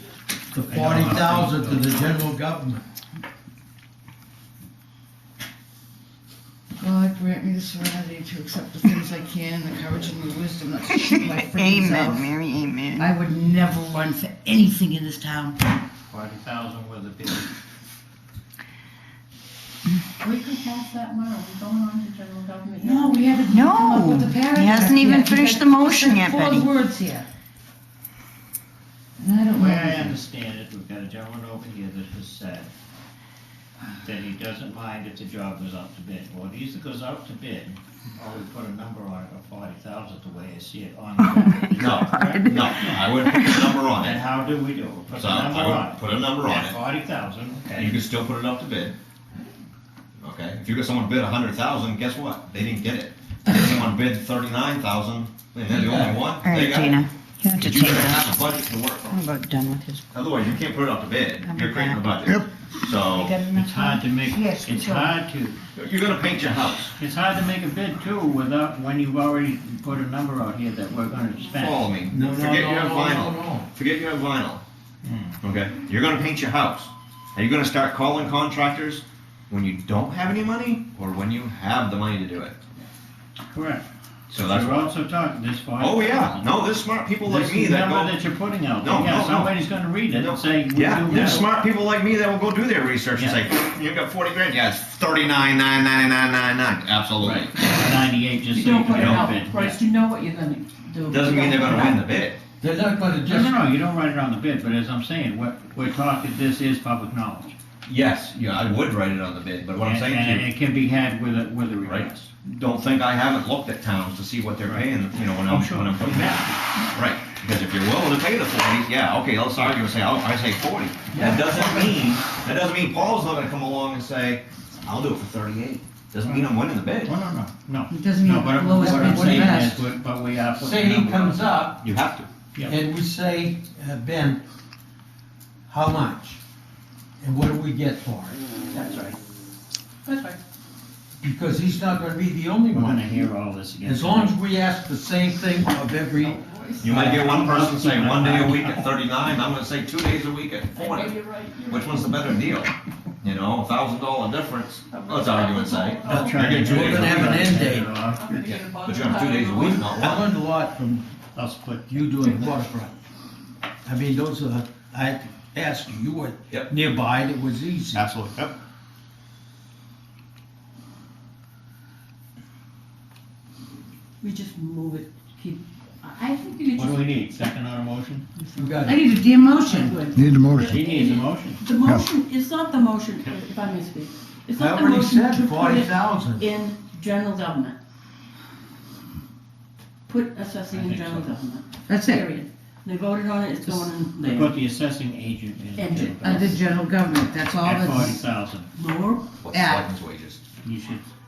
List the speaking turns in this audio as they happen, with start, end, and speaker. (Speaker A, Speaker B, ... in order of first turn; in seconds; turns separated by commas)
Speaker A: 0.5-2.8, Speaker B: 0.7-2.1, Speaker C: 6.8-12.3, Speaker D: 10.9-13.1, Speaker C: 13.0-15.6, Speaker B: 16.1-17.5, Speaker E: 20.2-23.3, Speaker C: 22.8-27.2, Speaker D: 23.5-26.7, Speaker C: 29.2-30.1, Speaker B: 29.5-32.7, Speaker B: 34.0-43.0, Speaker D: 41.4-43.6, Speaker F: 41.8-44.2, Speaker B: 44.0-48.0, Speaker F: 45.1-46.8, Speaker F: 47.8-49.0, Speaker F: 50.2-57.0, Speaker A: 55.7-56.2, Speaker D: 56.3-58.2, Speaker F: 57.6-59.2, Speaker D: 59.1-60.0, Speaker F: 60.1-63.4, Speaker D: 61.4-62.4, Speaker D: 62.9-65.2, Speaker B: 63.5-65.6, Speaker F: 65.8-67.0, Speaker B: 66.8-71.8, Speaker F: 71.5-74.6, Speaker A: 72.1-73.7, Speaker B: 75.0-75.4, Speaker F: 75.4-82.6, Speaker B: 83.5-86.5, Speaker F: 84.3-84.9, Speaker F: 85.8-88.2, Speaker B: 87.2-91.5, Speaker F: 88.8-97.5, Speaker B: 93.2-93.4, Speaker B: 97.2-99.8, Speaker E: 98.5-102.0, Speaker F: 98.9-99.3, Speaker F: 101.1-102.4, Speaker B: 101.7-101.9, Speaker A: 102.6-103.6, Speaker B: 103.3-107.5, Speaker F: 107.8-110.5, Speaker B: 109.8-112.3, Speaker F: 111.8-127.1, Speaker B: 114.7-114.9, Speaker B: 115.5-116.6, Speaker A: 121.1-122.0, Speaker B: 127.0-131.6, Speaker C: 127.9-129.8, Speaker A: 128.8-129.7, Speaker A: 130.6-131.8, Speaker F: 131.8-132.3, Speaker A: 132.7-134.4, Speaker A: 135.7-136.4, Speaker A: 137.2-138.4, Speaker E: 138.7-139.2, Speaker E: 140.0-140.4, Speaker A: 141.2-143.2, Speaker B: 142.7-144.3, Speaker A: 143.8-147.3, Speaker E: 146.2-147.1, Speaker F: 146.8-157.4, Speaker B: 146.9-148.9, Speaker E: 150.7-152.2, Speaker E: 154.9-156.7, Speaker B: 156.0-158.6, Speaker A: 156.1-157.9, Speaker E: 158.0-159.9, Speaker F: 158.8-160.3, Speaker A: 159.5-161.1, Speaker B: 161.3-162.4, Speaker A: 161.9-162.9, Speaker A: 163.8-168.0, Speaker F: 167.9-168.5, Speaker E: 174.2-177.1, Speaker B: 176.7-178.2, Speaker E: 178.3-187.8, Speaker A: 178.6-179.0, Speaker C: 178.8-180.0, Speaker B: 180.6-181.6, Speaker A: 184.6-186.4, Speaker E: 190.1-194.5, Speaker B: 190.7-191.3, Speaker C: 191.9-192.2, Speaker B: 194.2-196.6, Speaker E: 195.8-196.6, Speaker C: 196.2-198.2, Speaker B: 197.6-198.7, Speaker E: 198.7-199.3, Speaker F: 199.4-200.4, Speaker C: 199.5-199.8, Speaker B: 200.6-201.0